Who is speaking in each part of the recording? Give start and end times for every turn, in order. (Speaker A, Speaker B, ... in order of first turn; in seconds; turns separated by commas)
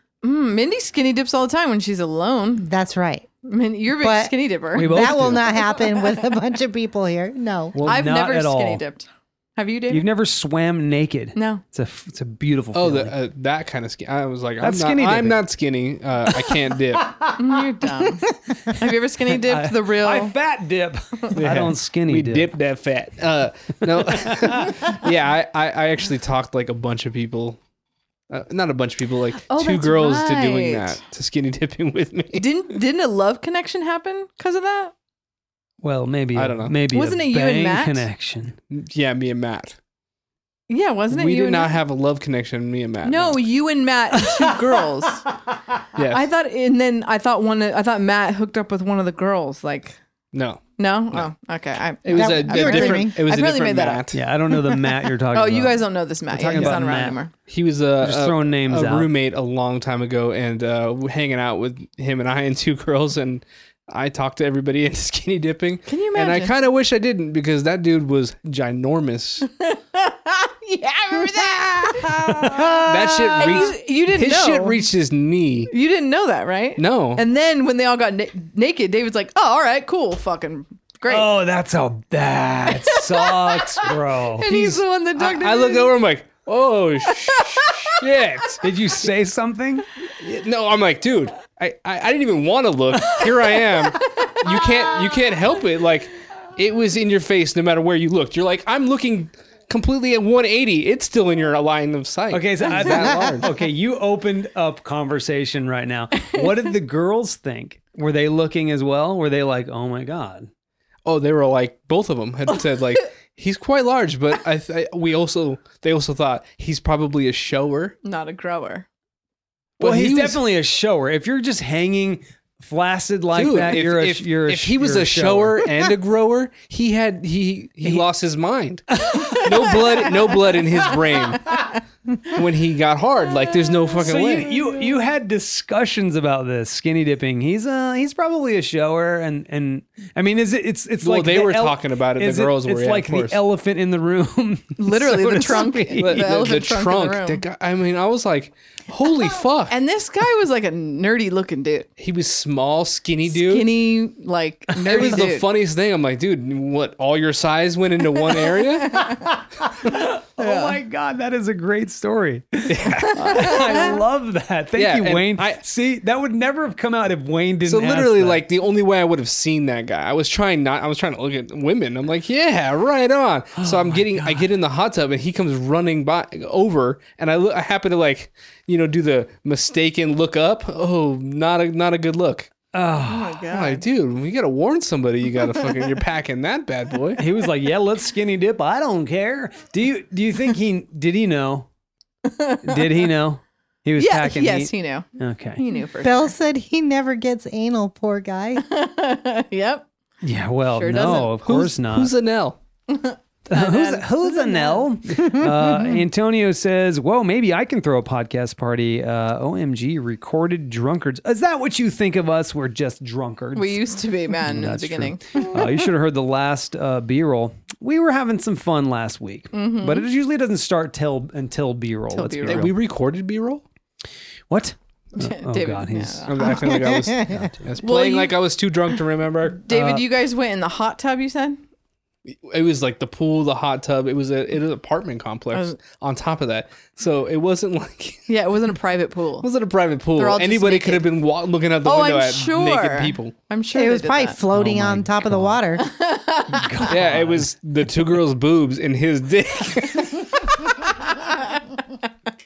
Speaker A: 0.2-2.6, Speaker B: 2.6-3.3, Speaker A: 3.4-6.1, Speaker B: 4.0-7.8, Speaker C: 4.7-5.6, Speaker C: 7.8-8.8, Speaker A: 7.8-10.1, Speaker C: 9.9-13.1, Speaker A: 11.3-11.6, Speaker D: 12.7-17.1, Speaker C: 14.6-15.4, Speaker C: 16.3-17.4, Speaker A: 17.4-20.3, Speaker C: 19.3-22.5, Speaker D: 21.3-27.6, Speaker C: 23.9-24.9, Speaker D: 28.3-32.5, Speaker A: 29.5-31.0, Speaker A: 32.3-34.9, Speaker C: 35.8-38.6, Speaker D: 36.3-36.7, Speaker A: 36.9-38.0, Speaker D: 38.7-39.8, Speaker A: 40.7-41.8, Speaker D: 41.1-43.4, Speaker A: 43.0-45.2, Speaker D: 46.0-46.2, Speaker A: 46.1-50.0, Speaker D: 50.3-51.3, Speaker A: 50.8-57.3, Speaker D: 52.0-54.2, Speaker B: 52.1-53.1, Speaker C: 54.1-57.2, Speaker D: 56.5-56.8, Speaker D: 57.5-69.5, Speaker C: 58.0-59.1, Speaker A: 65.9-66.5, Speaker A: 69.6-74.8, Speaker C: 72.1-73.6, Speaker D: 72.8-75.7, Speaker A: 75.7-81.3, Speaker D: 76.8-77.2, Speaker C: 81.1-84.8, Speaker A: 82.7-85.9, Speaker D: 85.2-88.6, Speaker A: 87.3-88.0, Speaker C: 88.6-89.9, Speaker D: 90.2-103.5, Speaker A: 94.0-94.6, Speaker C: 102.3-110.5, Speaker D: 111.0-118.0, Speaker A: 118.0-118.9, Speaker D: 119.8-120.4, Speaker C: 119.8-125.7, Speaker D: 123.3-131.6, Speaker C: 129.0-129.7, Speaker A: 129.1-130.3, Speaker A: 131.4-131.8, Speaker D: 132.3-134.6, Speaker C: 134.0-146.3, Speaker D: 141.0-143.4, Speaker A: 144.8-147.4, Speaker D: 146.0-149.7, Speaker A: 149.7-151.9, Speaker D: 152.0-153.7, Speaker A: 153.3-155.5, Speaker C: 154.8-155.2, Speaker D: 154.8-159.1, Speaker C: 159.0-168.4, Speaker D: 162.7-163.8, Speaker A: 163.2-164.0, Speaker D: 164.8-165.6, Speaker D: 167.6-182.5, Speaker C: 173.6-174.5, Speaker C: 182.7-183.4, Speaker A: 183.1-183.8, Speaker D: 183.5-187.2, Speaker C: 187.2-191.7, Speaker A: 192.2-193.0, Speaker C: 192.6-195.6, Speaker A: 194.0-195.1, Speaker A: 195.6-196.3, Speaker B: 196.0-198.6, Speaker A: 198.6-199.9, Speaker C: 200.2-202.1, Speaker A: 200.7-201.4, Speaker D: 201.1-202.6, Speaker A: 202.9-204.8, Speaker C: 203.5-213.8, Speaker B: 205.2-205.6, Speaker A: 213.5-215.5, Speaker C: 214.4-222.8, Speaker A: 219.5-220.1, Speaker A: 222.1-222.7, Speaker D: 222.4-223.6, Speaker C: 224.5-227.8, Speaker A: 225.2-226.3, Speaker D: 226.3-229.6, Speaker B: 226.5-227.5, Speaker A: 227.8-228.3, Speaker A: 229.6-231.6, Speaker C: 229.7-230.1, Speaker D: 232.3-238.3, Speaker A: 235.5-235.8, Speaker A: 238.3-239.5, Speaker D: 239.4-243.3, Speaker A: 240.2-241.0, Speaker A: 241.8-244.4, Speaker B: 243.7-245.8, Speaker C: 244.5-245.6, Speaker A: 245.8-246.9, Speaker C: 246.5-247.5, Speaker D: 246.9-250.7, Speaker A: 251.0-251.6